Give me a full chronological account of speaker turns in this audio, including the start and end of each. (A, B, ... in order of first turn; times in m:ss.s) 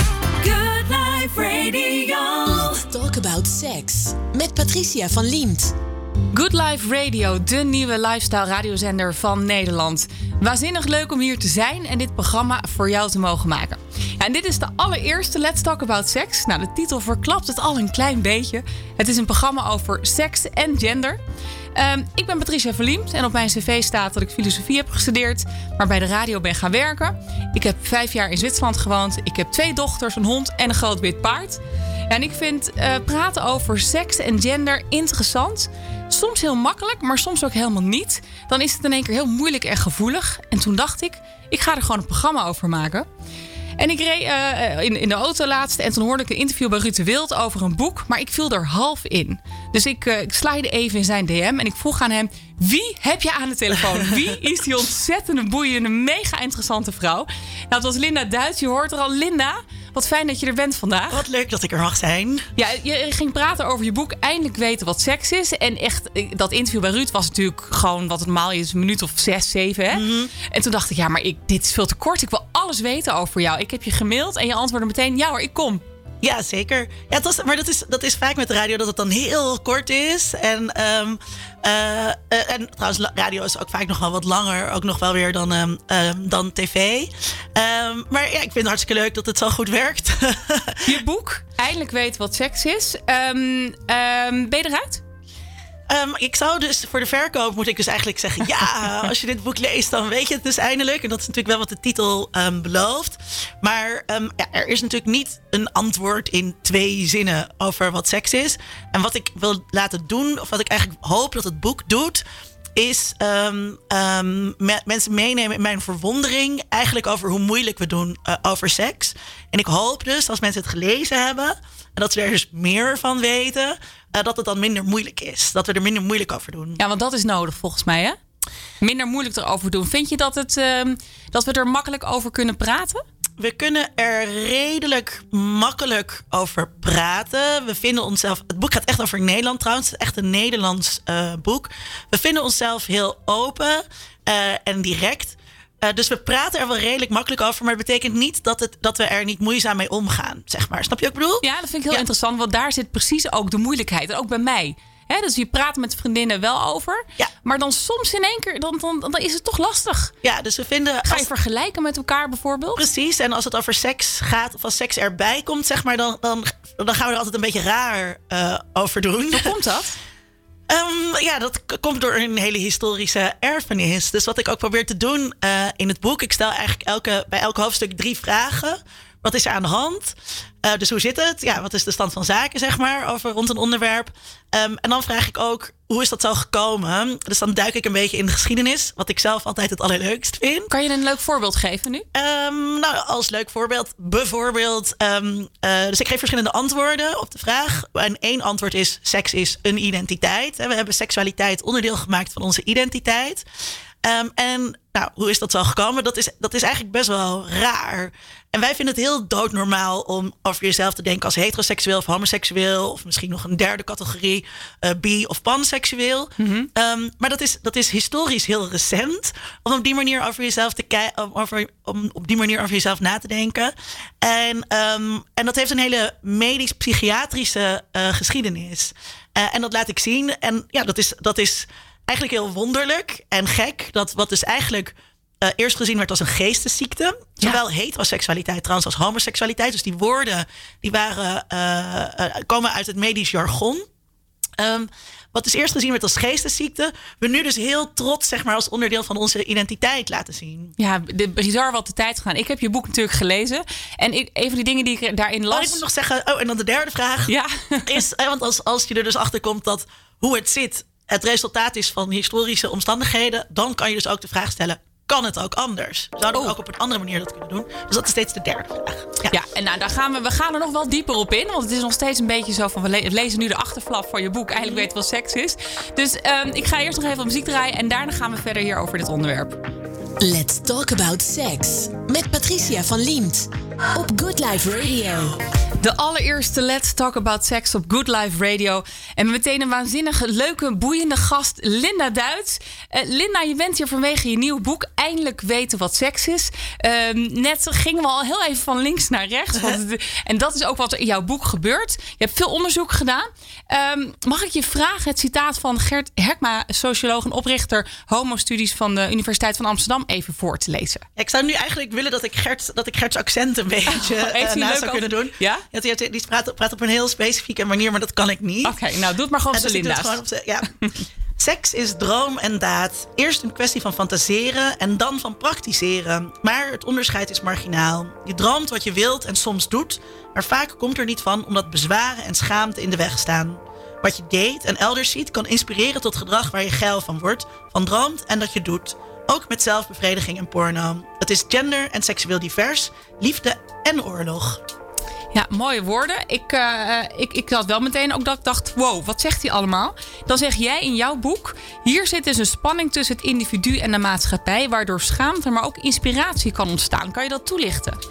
0:00.4-0:05.8 A
0:06.3-0:21.2 B
0:21.8-0:43.1 B
0:43.8-1:01.2 B
1:01.1-1:02.5 C
1:02.6-1:15.8 B
1:09.9-1:10.3 C
1:16.2-1:31.0 C
1:30.9-1:35.0 B
1:35.9-1:52.2 C
1:52.8-2:06.8 C
2:06.8-2:08.2 B
2:08.8-2:13.0 B
2:13.4-2:32.0 C
2:31.4-2:40.1 B
2:40.2-2:41.3 C
2:41.0-2:42.8 B
2:42.8-2:49.5 C
2:49.3-2:50.0 B
2:50.7-3:10.7 C
3:10.7-3:12.0 B
3:12.1-3:23.4 C
3:24.0-4:03.8 C
3:36.4-3:36.7 B
4:04.6-4:10.8 C
4:10.8-4:15.8 B
4:15.5-4:17.3 C
4:17.3-4:18.0 B
4:17.8-4:29.4 C
4:29.3-4:39.6 B
4:40.2-4:45.4 A
4:45.8-5:11.1 B
5:11.2-5:18.8 C
5:13.9-5:15.6 B
5:18.6-5:20.2 B
5:19.5-5:20.7 C
5:21.4-5:44.6 C
5:45.3-5:58.0 B